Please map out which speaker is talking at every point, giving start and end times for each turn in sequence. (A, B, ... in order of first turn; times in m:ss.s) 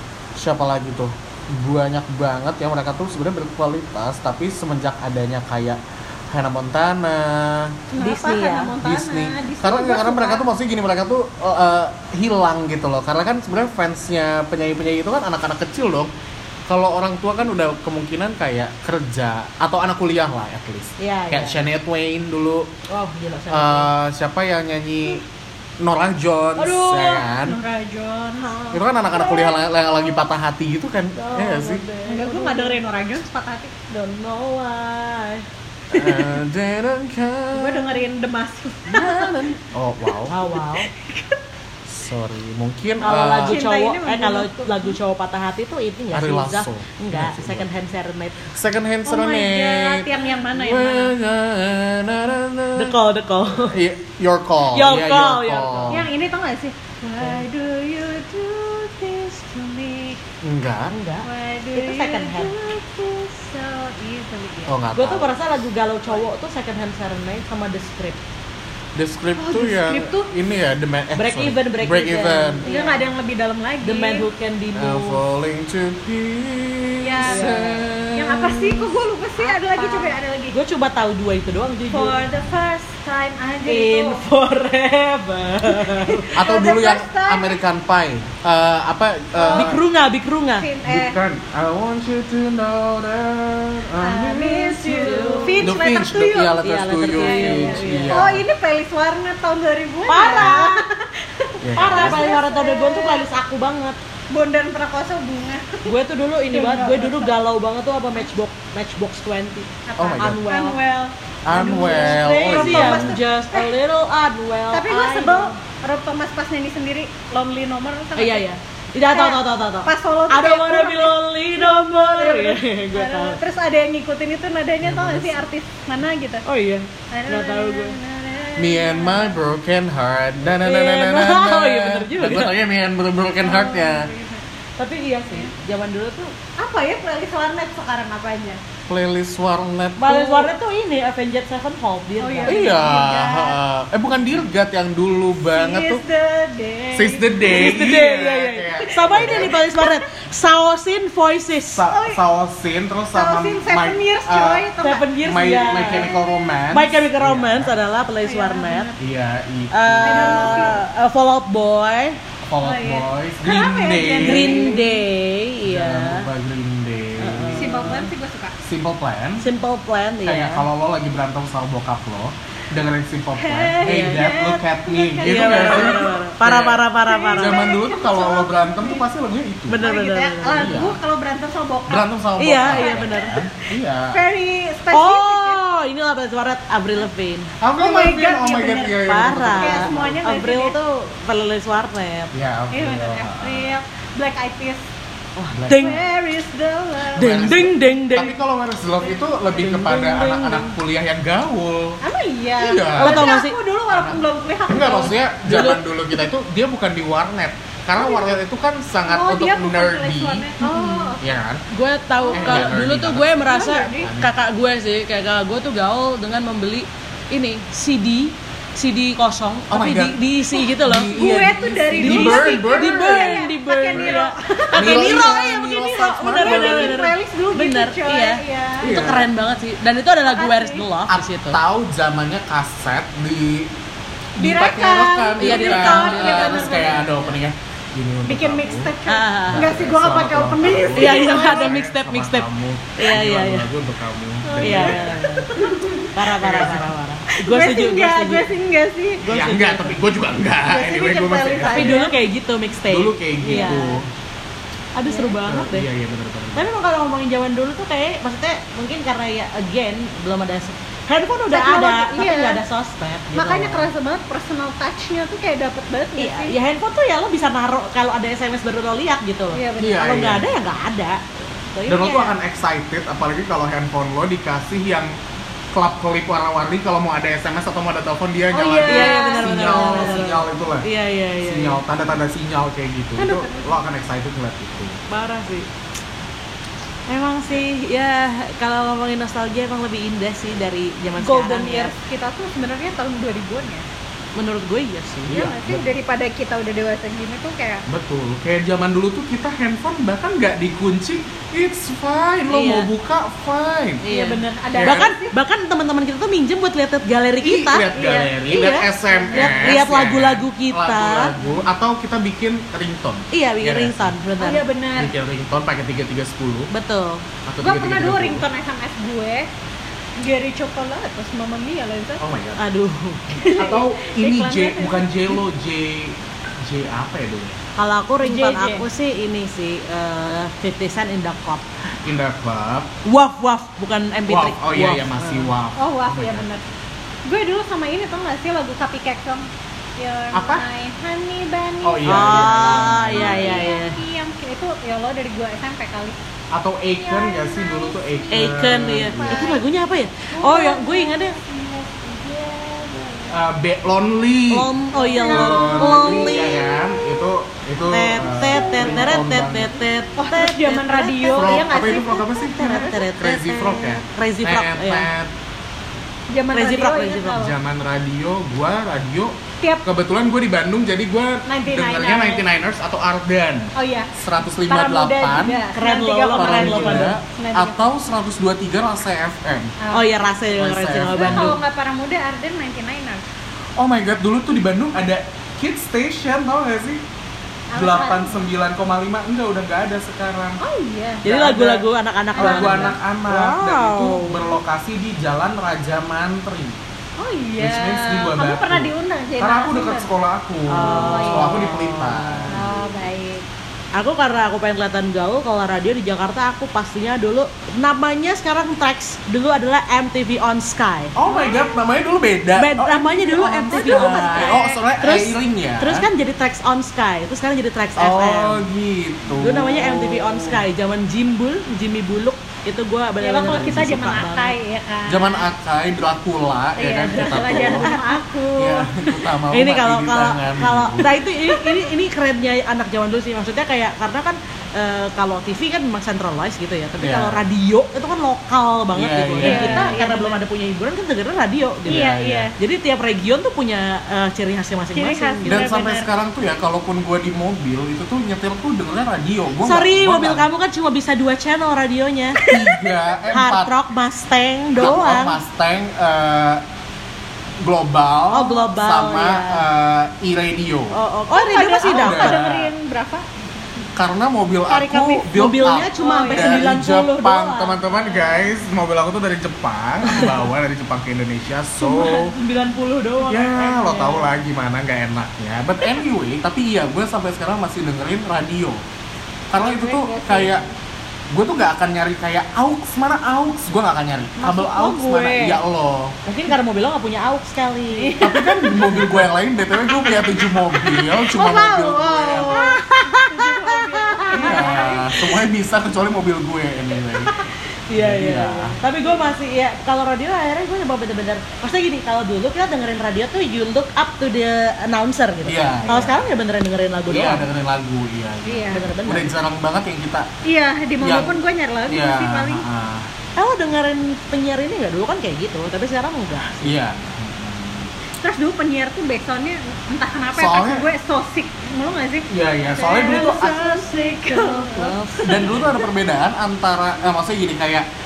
0:00.4-0:05.8 A
0:06.3-0:07.8 A
0:07.9-0:10.4 B
0:08.0-0:08.7 C
0:08.8-0:16.1 A
0:16.7-0:22.7 A
0:21.0-0:21.6 C
0:22.9-0:23.9 C
0:23.5-0:25.2 A
0:25.8-0:27.6 A
0:26.6-0:27.2 C
0:27.2-0:28.5 B
0:28.4-0:29.6 C
0:28.7-0:31.8 A
0:31.2-0:32.8 C
0:32.1-0:33.9 B
0:33.9-0:36.3 C
0:35.9-0:37.9 A
0:37.5-0:39.5 B
0:38.9-0:40.4 A
0:40.3-0:40.9 C
0:41.0-0:41.4 B
0:41.9-0:43.6 A
0:43.0-0:48.5 C
0:43.1-0:45.0 B
0:46.1-0:47.7 A
0:48.5-0:53.0 A
0:49.1-0:51.2 B
0:52.8-0:53.8 C
0:53.6-0:56.1 A
0:54.7-0:56.0 C
0:55.9-0:59.0 B
0:57.2-0:57.6 C
0:59.0-1:00.1 C
1:00.4-1:01.0 A
1:00.9-1:02.7 C
1:01.2-1:04.8 B
1:04.7-1:05.4 A
1:04.9-1:08.2 C
1:09.0-1:12.6 A
1:09.4-1:10.3 B
1:11.2-1:13.1 C
1:12.7-1:14.2 B
1:13.8-1:15.2 C
1:14.8-1:18.8 A
1:17.0-1:20.6 B
1:17.2-1:18.1 C
1:19.4-1:22.2 C
1:21.9-1:24.2 B
1:23.6-1:26.3 C
1:25.7-1:27.6 B
1:26.4-1:29.8 A
1:29.3-1:29.8 B
1:29.5-1:30.7 C
1:30.6-1:31.2 B
1:30.8-1:38.4 A
1:34.0-1:36.6 B
1:34.9-1:35.8 C
1:36.6-1:38.2 C
1:37.1-1:43.3 B
1:40.1-1:40.9 C
1:41.6-1:42.3 A
1:41.8-1:44.0 C
1:44.3-1:45.9 B
1:45.9-1:50.8 C
1:46.5-1:47.4 B
1:49.9-1:53.7 B
1:50.0-1:50.4 A
1:51.4-1:53.2 A
1:51.5-1:55.6 C
1:54.7-1:58.5 B
1:58.2-2:03.4 C
1:59.1-2:06.4 B
2:04.8-2:05.4 A
2:06.4-2:08.0 C
2:07.1-2:09.3 B
2:08.6-2:14.1 A
2:10.6-2:12.5 C
2:13.4-2:14.4 B
2:14.8-2:16.3 C
2:16.6-2:18.6 B
2:18.9-2:20.5 A
2:20.0-2:23.0 C
2:22.2-2:23.6 B
2:22.4-2:26.0 A
2:25.4-2:27.9 B
2:26.9-2:29.6 A
2:27.4-2:31.8 C
2:28.9-2:30.0 B
2:31.7-2:34.7 A
2:31.9-2:32.2 B
2:33.1-2:36.6 B
2:34.8-2:36.1 C
2:35.2-2:37.8 A
2:36.7-2:38.9 C
2:38.2-2:39.0 B
2:39.0-2:40.8 A
2:39.7-2:42.2 C
2:40.0-2:40.8 B
2:42.4-2:44.8 A
2:42.6-2:45.0 B
2:44.1-2:46.3 C
2:45.6-2:48.0 A
2:47.2-2:48.1 C
2:47.5-2:48.6 B
2:48.6-2:49.4 A
2:49.4-2:50.6 C
2:50.2-2:59.8 A
2:53.4-2:56.3 B
2:53.8-2:54.2 C
2:55.2-2:57.6 C
2:57.0-2:59.0 B
2:59.7-3:00.8 C
2:59.8-3:03.3 B
3:00.5-3:01.0 A
3:01.9-3:04.2 A
3:02.4-3:03.4 C
3:04.1-3:05.6 B
3:04.9-3:07.5 C
3:07.6-3:10.2 A
3:07.8-3:10.8 B
3:09.0-3:12.3 C
3:12.3-3:13.7 A
3:12.7-3:14.8 B
3:15.4-3:16.0 C
3:15.5-3:16.0 A
3:15.7-3:17.7 B
3:17.1-3:22.0 A
3:17.2-3:18.3 C
3:19.5-3:20.8 C
3:22.0-3:25.2 B
3:22.6-3:23.4 A
3:23.0-3:23.6 C
3:23.9-3:30.5 A
3:25.5-3:25.9 C
3:28.0-3:28.3 B
3:29.1-3:31.2 B
3:30.6-3:31.2 C
3:31.2-3:31.6 A
3:31.7-3:51.6 C
3:32.2-3:32.8 B
3:32.3-3:34.3 A
3:33.4-3:34.1 B
3:39.7-3:40.2 A
3:40.7-3:44.2 A
3:41.1-3:49.2 B
3:44.8-3:47.0 A
3:48.8-3:49.3 A
3:50.3-3:50.8 B
3:51.1-3:53.7 A
3:54.4-3:58.9 A
3:54.4-3:57.1 B
3:55.4-3:57.2 C
3:58.3-4:01.8 B
3:59.1-3:59.8 C
3:59.5-4:05.2 A
4:00.9-4:03.7 C
4:04.4-4:06.1 B
4:04.6-4:08.5 C
4:06.2-4:06.9 A
4:07.3-4:09.3 B
4:09.2-4:10.0 C
4:09.2-4:12.0 A
4:10.7-4:12.2 B
4:11.6-4:14.0 C
4:12.9-4:14.1 A
4:13.5-4:13.9 B
4:15.0-4:15.9 C
4:15.1-4:15.3 B
4:15.4-4:16.7 A
4:16.6-4:23.9 C
4:21.5-4:22.6 B
4:23.3-4:26.6 B
4:26.2-4:31.2 C
4:29.5-4:30.1 B
4:29.8-4:30.5 A
4:31.7-4:32.4 C
4:31.9-4:35.2 A
4:35.7-4:40.9 A
4:38.5-4:40.4 B
4:38.9-4:41.8 C
4:41.4-4:45.0 A
4:43.2-4:43.9 B
4:45.1-4:45.7 C
4:47.1-4:51.9 C
4:51.2-4:53.9 B
4:54.4-4:55.4 C
4:55.3-4:55.9 A
4:55.3-4:57.8 B
4:57.9-5:04.0 A
5:02.5-5:02.9 C
5:04.0-5:11.4 C
5:04.1-5:05.3 B
5:04.7-5:05.1 A
5:07.4-5:14.2 A
5:09.1-5:09.9 B
5:13.3-5:14.6 C
5:14.4-5:15.1 B
5:15.0-5:16.7 A
5:16.7-5:17.2 C
5:17.5-5:18.4 A
5:17.6-5:19.5 B
5:20.2-5:22.2 B
5:22.2-5:22.6 A
5:22.6-5:23.6 C
5:23.4-5:25.4 B
5:23.5-5:27.6 A
5:27.8-5:31.6 C
5:28.2-5:28.9 B
5:32.0-5:32.9 A
5:33.0-5:35.5 C
5:34.3-5:36.5 A
5:35.8-5:36.6 B
5:37.3-5:39.5 B
5:40.0-5:46.2 B
5:40.3-5:40.6 A
5:41.8-5:43.8 A
5:42.0-5:44.0 C
5:46.5-5:49.6 A
5:47.0-5:49.6 B
5:48.3-5:51.4 C
5:50.3-5:53.3 B
5:53.3-5:59.8 A
5:54.5-5:56.7 C
5:54.9-5:57.2 B
5:57.9-6:01.7 C
5:58.4-5:59.2 B
6:00.2-6:03.0 B
6:01.3-6:05.3 A
6:02.6-6:05.1 C
6:06.3-6:07.6 B
6:06.5-6:07.4 C
6:07.4-6:15.6 A
6:11.5-6:12.4 B
6:13.8-6:14.1 B
6:14.7-6:17.8 B
6:15.7-6:17.1 C
6:16.3-6:19.7 A
6:19.8-6:20.2 B
6:19.9-6:21.6 C
6:20.5-6:21.6 A
6:21.1-6:23.2 B
6:23.8-6:27.0 A
6:27.7-6:28.4 B
6:27.7-6:30.6 A
6:30.6-6:31.7 B
6:31.2-6:31.8 A
6:31.2-6:34.4 C
6:32.3-6:33.0 B
6:32.4-6:36.8 A
6:37.2-6:40.1 B
6:37.6-6:42.9 A
6:40.7-6:42.6 C
6:40.7-6:41.8 B
6:42.5-6:43.4 B
6:44.0-6:51.2 C
6:51.2-6:56.1 A
6:51.2-6:51.8 B
6:52.6-6:58.6 C
6:53.7-6:54.8 B
6:58.0-7:00.6 A
6:59.4-7:04.6 C
7:03.2-7:05.5 B
7:03.4-7:04.1 A
7:05.1-7:07.9 A
7:06.8-7:08.9 B
7:07.1-7:08.2 C
7:08.6-7:11.2 A
7:09.5-7:25.8 C
7:17.0-7:17.5 A
7:18.9-7:20.0 A
7:19.4-7:20.4 B
7:21.9-7:22.5 A
7:21.9-7:22.5 B
7:25.0-7:26.1 B
7:25.5-7:30.5 A
7:29.6-7:32.4 C
7:32.4-7:32.9 B
7:32.5-7:33.7 A
7:33.3-7:35.4 C
7:34.8-7:36.6 A
7:37.6-7:41.0 A
7:38.3-7:39.6 C
7:40.9-7:42.5 C
7:41.3-7:43.3 B
7:41.9-7:42.7 A
7:44.0-7:52.4 A
7:44.7-7:47.8 C
7:46.0-7:46.7 B
7:50.1-7:50.3 C
7:50.1-7:50.4 B
7:51.8-7:54.3 C
7:53.2-7:58.8 A
7:59.5-8:00.6 A
7:59.6-8:00.7 B
8:01.3-8:06.2 A
8:04.4-8:05.6 B
8:06.3-8:08.2 C
8:07.9-8:09.0 B
8:08.2-8:12.7 A
8:08.8-8:09.1 C
8:10.0-8:15.3 B
8:12.3-8:15.2 C
8:14.3-8:17.4 A
8:17.9-8:27.5 C
8:17.9-8:18.8 A
8:25.5-8:26.2 A
8:27.1-8:30.3 A
8:28.4-8:28.8 B
8:28.7-8:29.3 C
8:30.4-8:32.6 B
8:31.0-8:31.4 A
8:31.9-8:33.1 A
8:33.4-8:36.8 C
8:36.6-8:37.9 A
8:38.2-8:45.6 B
8:40.4-8:40.9 A
8:42.3-8:43.8 A
8:43.0-8:45.7 C
8:45.2-8:47.9 A